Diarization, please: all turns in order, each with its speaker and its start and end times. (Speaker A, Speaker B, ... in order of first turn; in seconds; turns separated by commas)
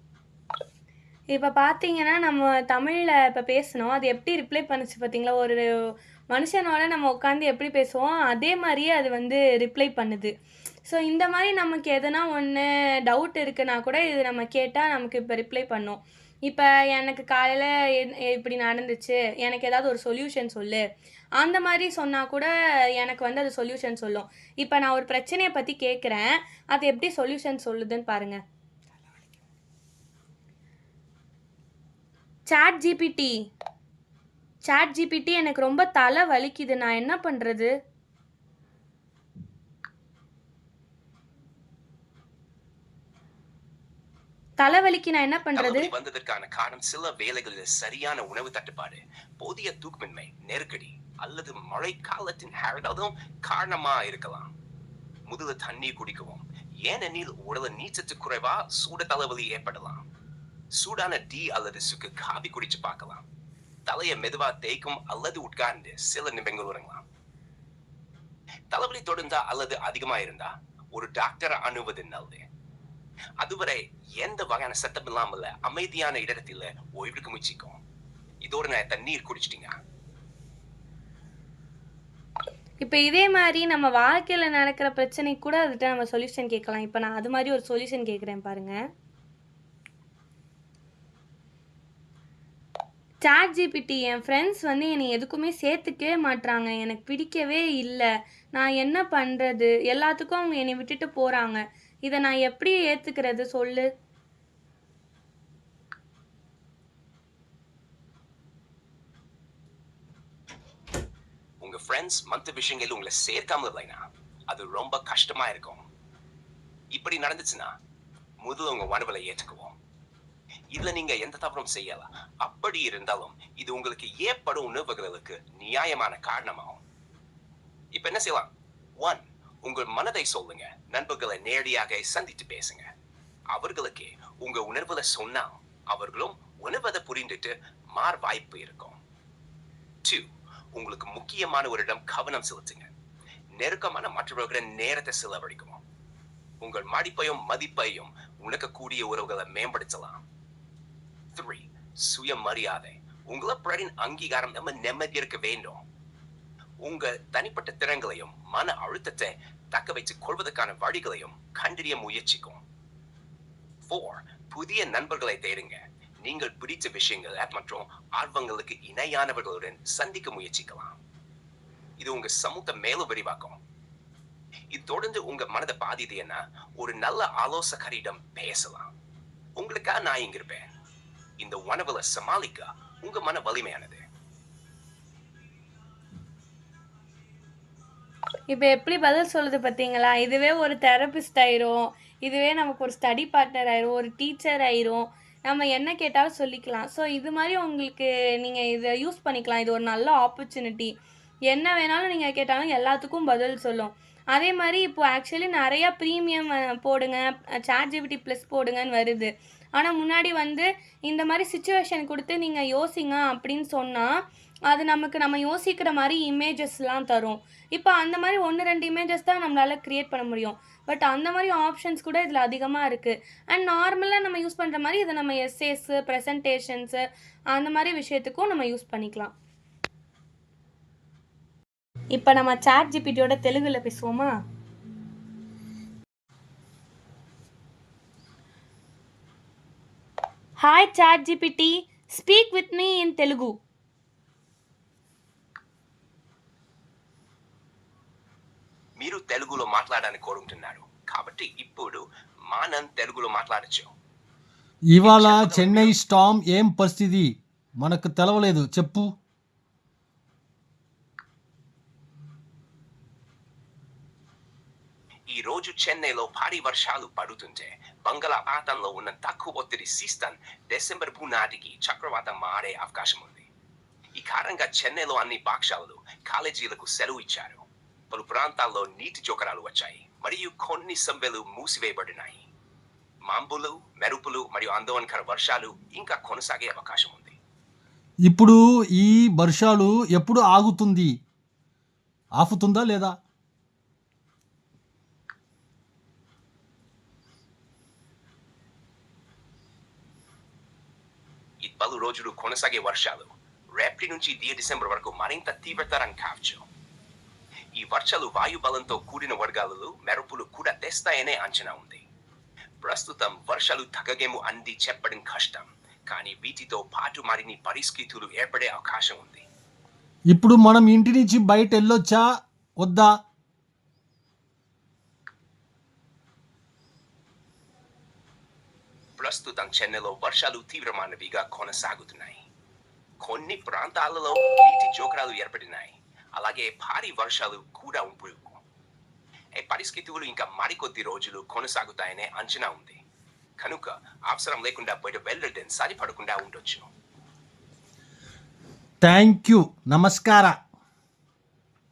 Speaker A: 1.3-5.6, Speaker A: 6.3-10.3, Speaker A: 10.9-20.8, Speaker A: 21.4-28.4, Speaker A: 32.5-33.3, Speaker A: 34.6-37.7, Speaker A: 44.6-45.9, Speaker B: 45.5-54.5, Speaker B: 55.3-60.0, Speaker B: 60.8-63.2, Speaker B: 63.9-67.0, Speaker B: 68.7-72.4, Speaker B: 73.4-77.8, Speaker B: 78.4-79.8, Speaker A: 82.8-88.8, Speaker A: 93.2-103.9, Speaker B: 111.6-115.8, Speaker B: 116.9-117.7, Speaker B: 118.4-119.8, Speaker B: 120.7-126.8, Speaker B: 127.9-132.9, Speaker B: 133.5-139.0, Speaker B: 140.0-142.9, Speaker B: 143.6-145.8, Speaker B: 146.6-150.2, Speaker B: 151.3-155.8, Speaker B: 156.8-162.6, Speaker B: 163.9-171.0, Speaker B: 172.0-173.6, Speaker B: 174.7-178.9, Speaker B: 179.6-180.7, Speaker B: 181.4-184.0, Speaker A: 188.5-200.9, Speaker A: 201.5-214.1, Speaker A: 214.7-229.3, Speaker A: 232.1-234.3, Speaker A: 240.6-243.6, Speaker B: 249.0-253.9, Speaker C: 254.9-259.1, Speaker B: 255.0-255.9, Speaker B: 265.3-273.5, Speaker B: 274.2-282.4, Speaker B: 283.3-287.4, Speaker C: 288.3-291.1, Speaker C: 292.4-293.2, Speaker B: 301.6-306.6, Speaker B: 307.8-312.0, Speaker B: 312.8-319.4, Speaker C: 320.3-322.3, Speaker C: 322.8-323.1, Speaker B: 329.2-332.4, Speaker B: 333.2-338.6, Speaker B: 339.6-343.0, Speaker B: 343.6-346.9, Speaker C: 349.0-350.6